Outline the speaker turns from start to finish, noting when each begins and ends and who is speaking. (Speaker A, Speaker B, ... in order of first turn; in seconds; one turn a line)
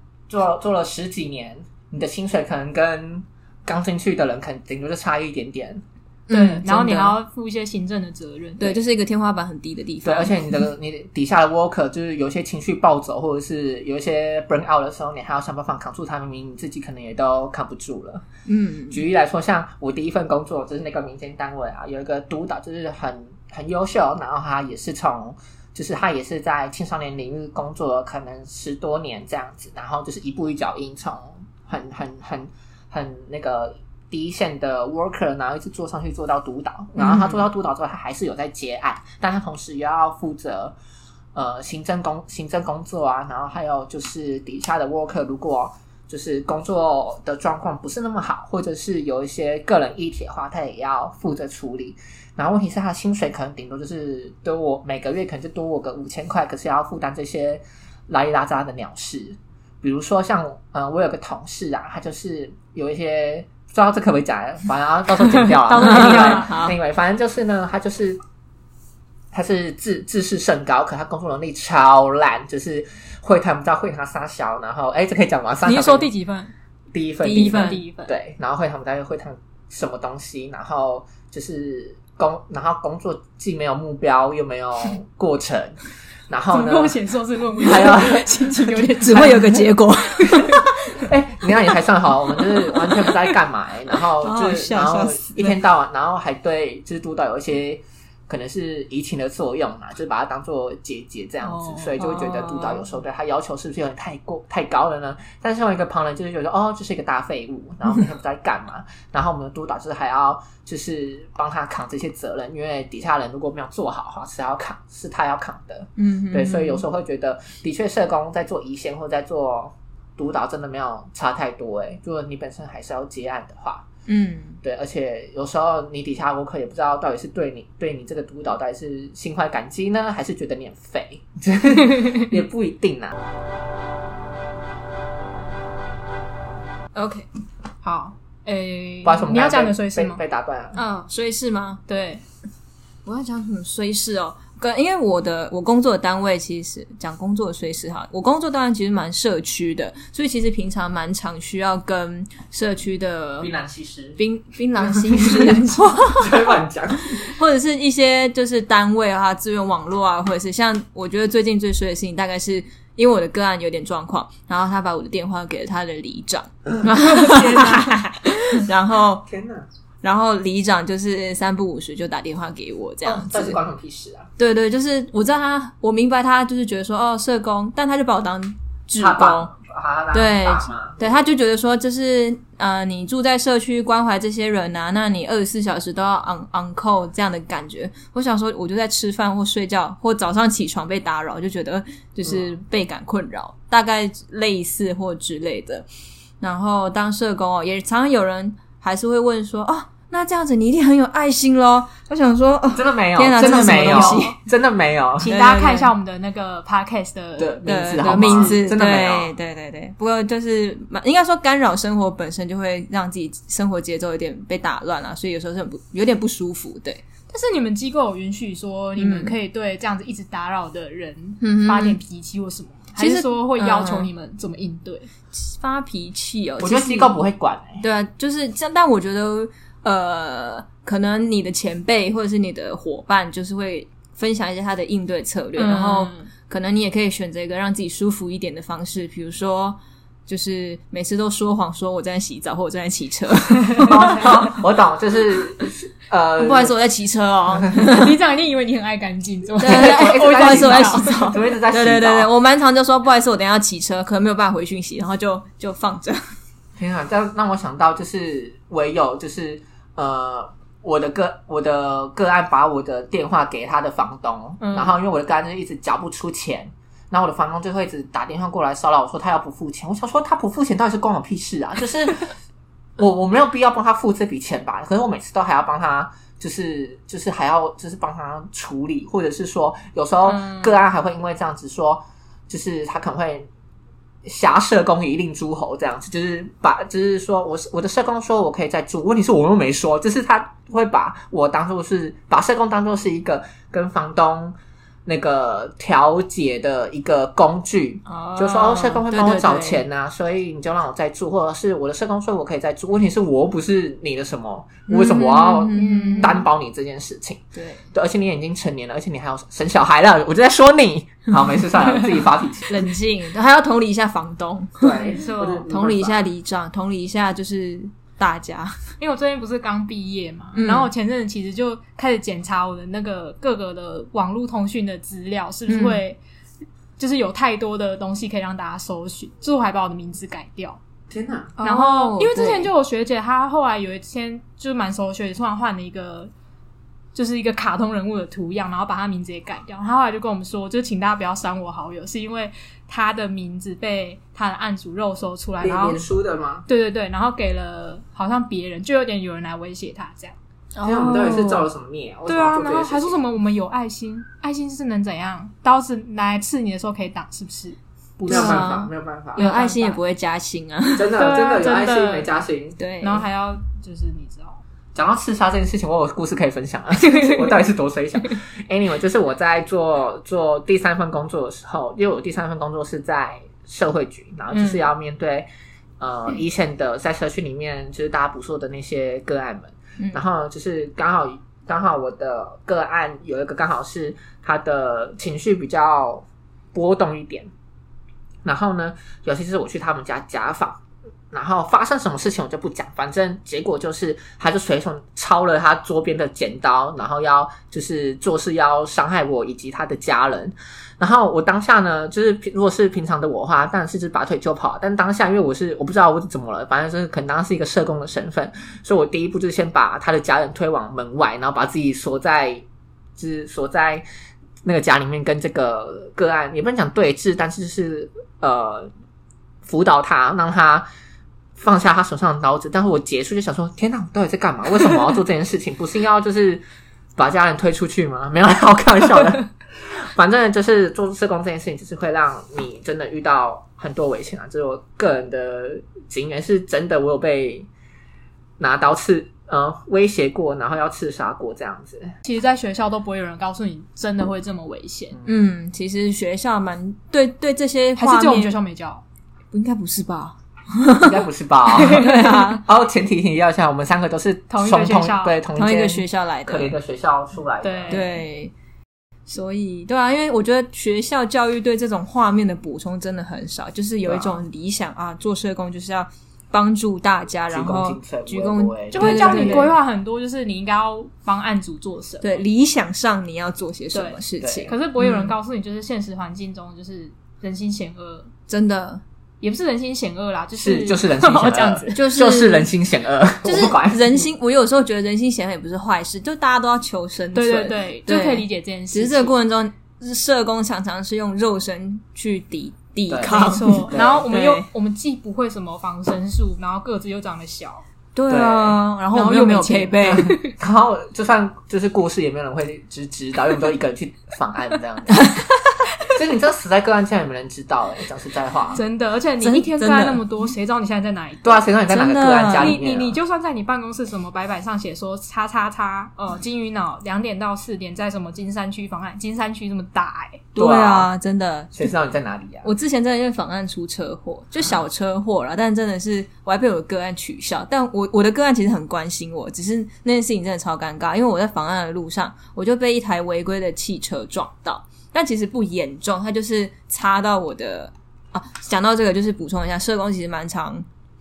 Speaker A: 0.3-5.8
Speaker B: 6.3-7.2
Speaker C: 6.3-8.8
Speaker B: 8.6-10.5
Speaker A: 10.0-18.2
Speaker B: 18.5-19.0
Speaker A: 18.9-40.8
Speaker B: 37.0-37.4
Speaker A: 41.4-68.2
Speaker C: 65.2-66.5
Speaker B: 65.8-66.8
Speaker A: 69.3-76.1
Speaker C: 75.7-76.5
Speaker A: 76.9-85.8
Speaker B: 77.2-77.8
Speaker C: 77.2-78.1
Speaker A: 86.3-87.0
Speaker C: 86.5-89.6
Speaker A: 87.6-89.6
Speaker B: 89.0-90.8
Speaker A: 91.0-123.9
Speaker B: 92.7-93.1
Speaker B: 94.2-95.6
Speaker C: 101.5-101.9
Speaker B: 102.0-102.8
Speaker B: 116.0-116.8
Speaker B: 124.1-124.6
Speaker A: 124.6-133.2
Speaker B: 136.9-137.3
Speaker C: 137.8-140.2
Speaker A: 139.0-140.8
Speaker B: 140.8-141.8
Speaker C: 141.9-142.2
Speaker B: 143.1-153.5
Speaker A: 153.4-154.2
Speaker B: 154.2-156.3
Speaker A: 154.8-157.2
Speaker B: 157.2-169.2
Speaker C: 167.1-167.9
Speaker A: 169.3-169.7
Speaker B: 170.0-173.6
Speaker A: 173.0-174.3
Speaker B: 174.4-179.5
Speaker A: 179.0-181.2
Speaker B: 180.1-195.9
Speaker A: 192.2-192.6
Speaker B: 196.4-204.4
Speaker A: 202.7-205.3
Speaker C: 203.4-204.4
Speaker C: 205.2-208.6
Speaker B: 205.2-205.9
Speaker A: 207.4-209.3
Speaker B: 207.7-217.0
Speaker C: 217.3-225.1
Speaker B: 219.0-219.3
Speaker B: 221.4-222.0
Speaker B: 223.0-224.1
Speaker B: 225.3-227.2
Speaker A: 226.6-227.8
Speaker B: 227.8-244.5
Speaker C: 235.6-236.3
Speaker A: 243.8-246.7
Speaker B: 246.4-248.2
Speaker C: 247.8-251.3
Speaker B: 249.6-256.2
Speaker A: 249.6-252.3
Speaker A: 256.8-272.3
Speaker C: 264.6-264.9
Speaker A: 273.0-283.5
Speaker C: 280.3-280.7
Speaker A: 284.2-312.8
Speaker B: 298.1-299.8
Speaker B: 304.9-306.4
Speaker C: 305.7-306.4
Speaker B: 307.6-307.9
Speaker B: 312.7-315.1
Speaker A: 314.8-316.2
Speaker C: 314.9-315.7
Speaker B: 315.7-318.8
Speaker C: 319.0-326.2
Speaker B: 320.6-320.9
Speaker B: 325.7-326.0
Speaker C: 327.0-330.8
Speaker A: 331.1-331.6
Speaker C: 331.6-336.3
Speaker B: 331.6-332.7
Speaker C: 337.1-346.0
Speaker A: 345.6-346.7
Speaker C: 346.7-350.4
Speaker B: 350.8-351.7
Speaker A: 350.8-353.2
Speaker C: 352.3-358.7
Speaker A: 358.2-359.4
Speaker B: 358.3-361.2
Speaker C: 359.4-360.0
Speaker A: 361.0-362.8
Speaker C: 361.2-362.3
Speaker B: 362.8-363.2
Speaker C: 363.0-364.6
Speaker A: 364.9-375.5
Speaker C: 367.0-367.6
Speaker C: 374.5-374.8
Speaker A: 376.0-387.5
Speaker A: 388.4-390.8
Speaker A: 391.3-412.6
Speaker A: 413.2-414.0
Speaker A: 414.6-418.9
Speaker A: 419.6-420.9
Speaker A: 421.6-426.6
Speaker A: 427.2-437.7
Speaker A: 438.6-442.1
Speaker C: 442.2-445.2
Speaker B: 445.3-448.6
Speaker C: 448.0-449.0
Speaker B: 449.5-452.6
Speaker A: 451.0-458.0
Speaker C: 451.8-452.4
Speaker C: 454.5-455.4
Speaker B: 455.6-456.7
Speaker C: 457.6-458.1
Speaker B: 457.9-458.5
Speaker B: 459.3-469.7
Speaker A: 464.1-464.4
Speaker A: 467.5-469.8
Speaker C: 468.9-472.4
Speaker B: 472.2-475.3
Speaker C: 473.9-478.3
Speaker A: 474.4-474.7
Speaker B: 478.5-479.0
Speaker C: 479.4-482.0
Speaker A: 480.6-484.3
Speaker B: 481.9-482.7
Speaker B: 483.4-494.7
Speaker C: 487.3-489.3
Speaker A: 493.1-494.3
Speaker C: 493.3-497.8
Speaker B: 498.1-500.4
Speaker A: 498.3-498.8
Speaker C: 499.1-500.5
Speaker A: 500.1-505.4
Speaker B: 505.1-505.8
Speaker A: 506.1-508.8
Speaker C: 508.8-511.7
Speaker B: 509.4-510.2
Speaker A: 511.4-513.2
Speaker B: 511.9-512.8
Speaker C: 512.5-520.5
Speaker B: 520.5-521.8
Speaker A: 520.6-521.1
Speaker A: 521.7-522.7
Speaker B: 522.6-540.9